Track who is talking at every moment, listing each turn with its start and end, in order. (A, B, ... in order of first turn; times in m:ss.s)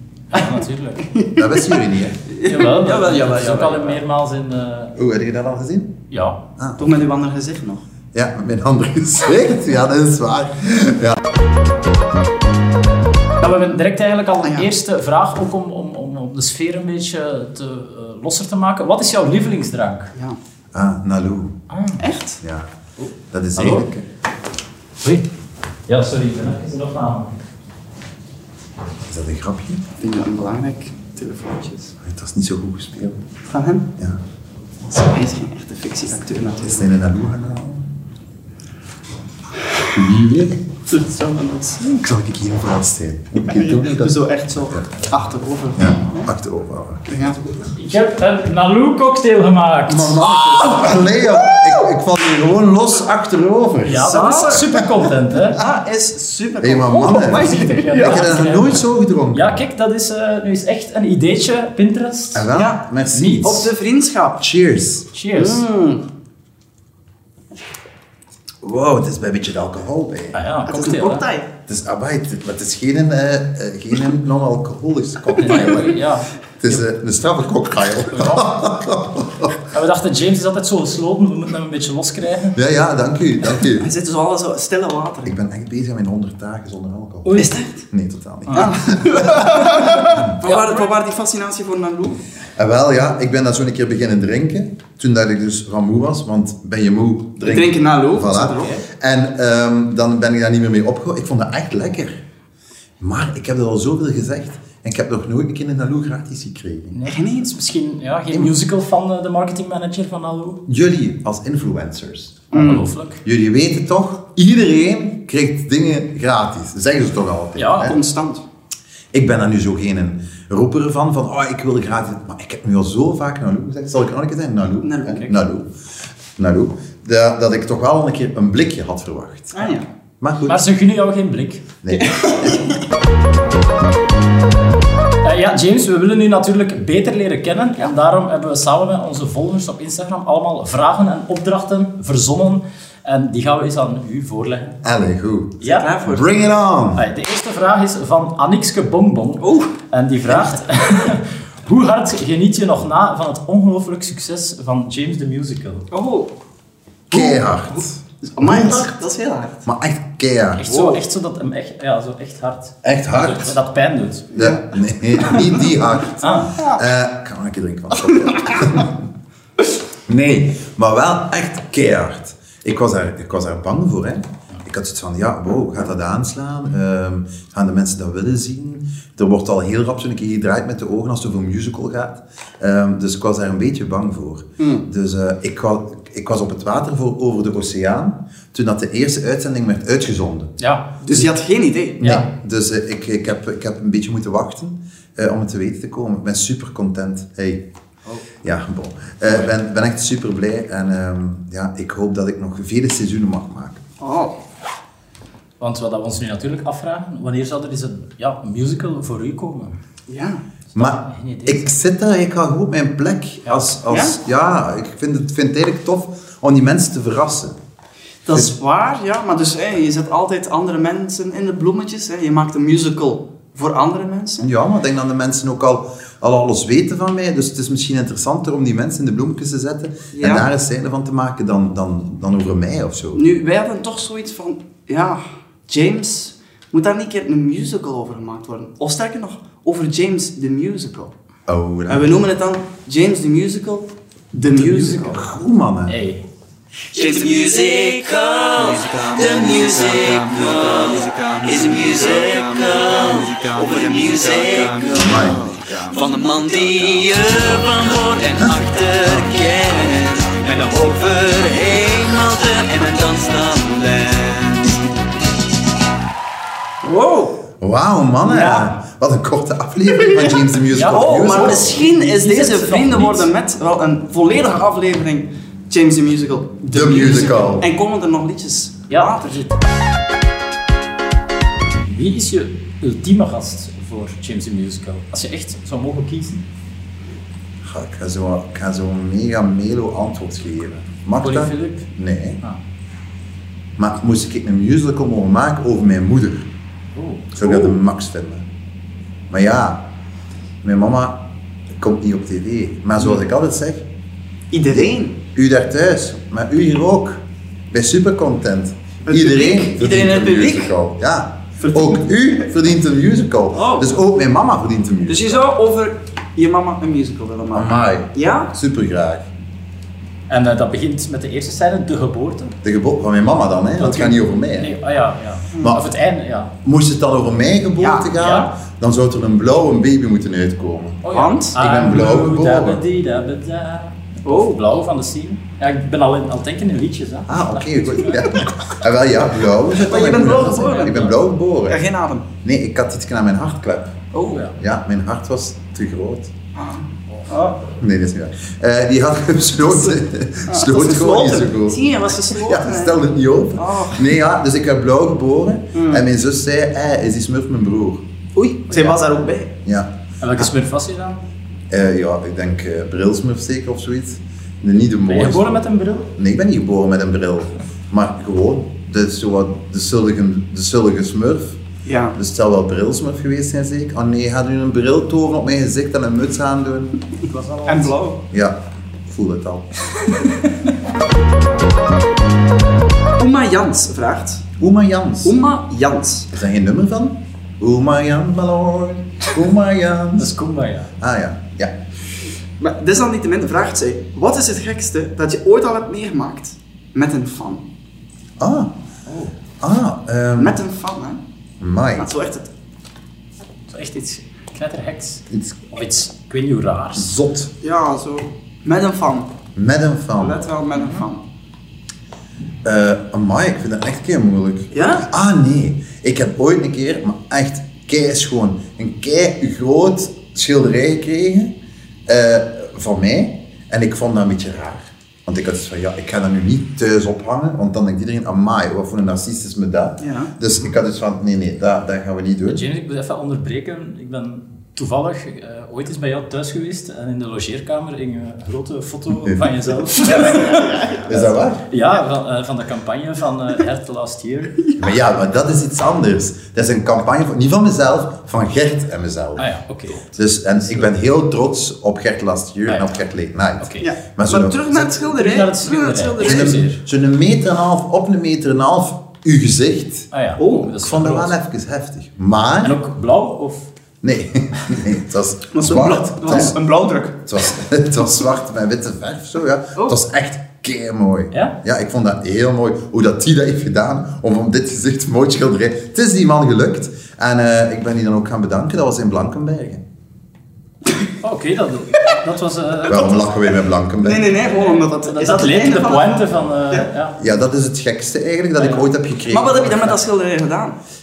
0:00.3-0:01.1 A
0:01.0-0:01.7 B
0:01.3-0:02.2 C
0:02.2-0:03.9 B
0:02.4-0:04.9 A
0:03.3-0:03.9 C
0:04.9-0:06.0 C
0:06.1-0:06.4 A
0:06.6-0:07.0 C
0:06.8-0:07.8 B
0:08.1-0:11.2 C
0:13.4-0:20.1 A
0:14.4-0:14.7 B
0:20.7-0:21.6 C
0:21.7-0:22.0 A
0:22.0-0:22.4 B
0:22.4-0:22.7 C
0:23.0-0:23.8 A
0:23.3-0:24.0 C
0:25.9-0:27.3 A
0:29.1-0:29.8 C
0:30.0-0:31.9 B
0:32.0-0:33.2 C
0:33.5-0:33.9 B
0:34.9-0:36.9 B
0:36.6-0:37.8 C
0:39.9-0:40.6 C
0:40.8-0:42.0 B
0:42.0-0:44.9 C
0:43.4-0:46.3 B
0:45.8-0:47.7 C
0:47.1-0:47.6 B
0:47.7-0:50.2 A
0:49.9-0:55.0 C
0:50.6-0:51.6 B
0:53.8-0:55.6 A
0:54.0-0:54.6 B
0:55.5-0:58.3 B
0:56.6-0:59.6 C
0:57.0-1:02.5 A
1:02.3-1:03.7 C
1:02.5-1:04.4 B
1:03.1-1:03.4 A
1:04.4-1:05.1 C
1:05.1-1:05.6 A
1:05.3-1:06.0 B
1:08.6-1:10.4 C
1:10.3-1:11.2 A
1:10.6-1:11.5 B
1:11.7-1:16.0 C
1:15.4-1:16.8 A
1:16.6-1:19.6 C
1:18.1-1:18.6 A
1:19.7-1:22.6 A
1:22.5-1:23.9 C
1:23.8-1:25.3 B
1:25.2-1:29.6 C
1:27.2-1:27.5 A
1:27.4-1:27.8 B
1:28.5-1:32.2 B
1:30.4-1:30.9 A
1:32.6-1:42.2 C
1:37.4-1:38.8 B
1:43.0-1:47.0 C
1:46.9-1:50.6 A
1:47.0-1:47.5 B
1:50.7-1:58.0 C
1:52.5-1:52.8 B
1:52.5-1:53.2 A
1:57.6-1:58.0 A
1:57.8-1:58.4 B
1:59.1-2:05.7 C
2:04.8-2:05.3 B
2:06.4-2:09.5 C
2:09.5-2:09.9 B
2:10.2-2:10.6 C
2:10.4-2:11.6 A
2:11.8-2:12.6 C
2:11.9-2:12.7 B
2:15.2-2:24.7 A
2:24.8-2:27.0 C
2:25.6-2:25.9 A
2:25.6-2:26.3 B
2:27.0-2:35.9 A
2:29.4-2:29.7 B
2:30.3-2:30.6 B
2:35.9-2:36.3 B
2:37.1-2:38.8 C
2:37.1-2:39.6 B
2:39.6-2:40.6 C
2:40.6-2:44.3 A
2:40.6-2:41.0 B
2:42.8-2:43.6 C
2:44.3-2:49.0 C
2:46.2-2:46.5 A
2:46.4-2:46.8 B
2:48.1-2:48.8 B
2:50.1-3:10.5 C
3:04.6-3:04.8 B
3:10.6-3:10.9 A
3:11.0-3:12.0 B
3:11.1-3:11.3 C
3:12.0-3:17.6 C
3:12.0-3:12.3 A
3:18.4-3:23.8 C
3:24.0-3:24.3 B
3:25.6-3:29.8 A
3:30.1-3:30.4 B
3:30.7-3:31.7 A
3:30.8-3:37.5 C
3:33.4-3:33.7 A
3:33.9-3:34.2 B
3:38.2-3:44.4 B
3:44.4-3:53.2 C
3:50.1-3:50.5 B
3:53.1-4:01.1 B
4:01.5-4:02.2 C
4:01.9-4:05.2 B
4:04.5-4:05.3 A
4:05.1-4:06.0 C
4:05.9-4:06.2 A
4:06.9-4:24.8 B
4:15.0-4:15.4 C
4:26.8-4:27.4 B
4:27.6-4:31.8 C
4:28.3-4:28.7 A
4:30.7-4:33.3 A
4:30.9-4:39.4 B
4:36.7-4:37.7 C
4:36.9-4:37.4 A
4:38.9-4:39.5 A
4:41.9-4:46.4 A
4:47.6-4:52.4 C
4:51.2-4:51.8 A
4:53.8-4:56.5 C
4:56.9-4:57.3 A
4:57.4-4:58.4 C
4:57.4-4:57.8 B
4:59.3-4:59.8 C
5:00.6-5:01.3 C
5:01.8-5:03.8 C
5:03.0-5:03.2 B
5:04.5-5:05.2 B
5:04.7-5:15.4 C
5:09.0-5:10.8 B
5:11.6-5:12.0 B
5:13.5-5:14.0 B
5:15.1-5:18.5 B
5:17.5-5:19.3 C
5:20.3-5:22.5 A
5:22.6-5:24.8 C
5:23.6-5:26.5 A
5:25.6-5:25.9 C
5:26.6-5:31.0 C
5:27.8-5:28.2 B
5:28.2-5:28.5 A
5:31.0-5:38.4 A
5:31.1-5:31.6 B
5:31.5-5:32.8 C
5:34.2-5:34.6 B
5:37.3-5:41.8 C
5:39.8-5:41.1 B
5:41.7-5:42.2 B
5:42.4-5:44.0 C
5:44.1-5:44.4 B
5:44.6-5:46.3 C
5:46.6-5:47.6 B
5:47.6-5:51.8 C
5:49.8-5:53.0 B
5:52.3-5:58.0 C
5:53.6-5:54.1 B
5:55.7-5:56.0 B
5:58.3-5:59.5 B
5:58.7-5:59.0 A
5:59.6-6:00.5 C
6:00.2-6:01.2 A
6:01.7-6:05.6 C
6:05.1-6:06.1 A
6:06.2-6:11.6 C
6:11.8-6:12.2 B
6:12.1-6:17.0 C
6:17.2-6:17.9 A
6:17.6-6:18.2 B
6:18.3-6:19.7 C
6:23.2-6:24.4 B
6:24.6-6:25.4 C
6:25.2-6:26.3 B
6:26.3-6:30.3 C
6:30.2-6:30.9 A
6:31.0-6:31.7 C
6:32.6-6:37.6 B
6:38.4-6:38.7 C
6:39.1-6:39.3 A
6:39.6-6:40.6 C
6:40.4-6:41.2 B
6:41.6-6:42.1 C
6:42.0-6:42.5 B
6:43.7-6:47.2 A
6:45.3-6:45.7 C
6:46.9-6:47.5 C
6:47.6-6:49.3 B
6:49.6-6:50.4 C
6:50.2-6:51.2 B
6:50.7-6:51.0 A
6:52.6-7:01.5 C
6:54.7-6:55.1 B
7:02.1-7:12.6 C
7:10.0-7:10.3 B
7:12.5-7:24.6 A
7:19.2-7:19.5 C
7:20.0-7:21.2 B
7:21.0-7:21.6 C
7:24.8-7:29.5 C
7:29.4-7:30.8 A
7:30.0-7:34.6 C
7:32.7-7:33.0 A
7:33.6-7:33.9 A
7:33.8-7:36.6 B
7:34.7-7:36.8 A
7:36.2-7:40.1 C
7:40.1-7:41.3 A
7:40.4-7:40.7 B
7:40.8-7:42.8 C
7:42.6-7:43.7 A
7:44.0-7:46.6 C
7:45.5-7:47.3 B
7:47.3-7:59.8 C
8:01.2-8:03.2 A
8:02.9-8:04.3 C
8:04.0-8:06.8 B
8:04.3-8:07.2 A
8:07.2-8:10.0 C
8:08.6-8:08.9 A
8:09.3-8:10.8 B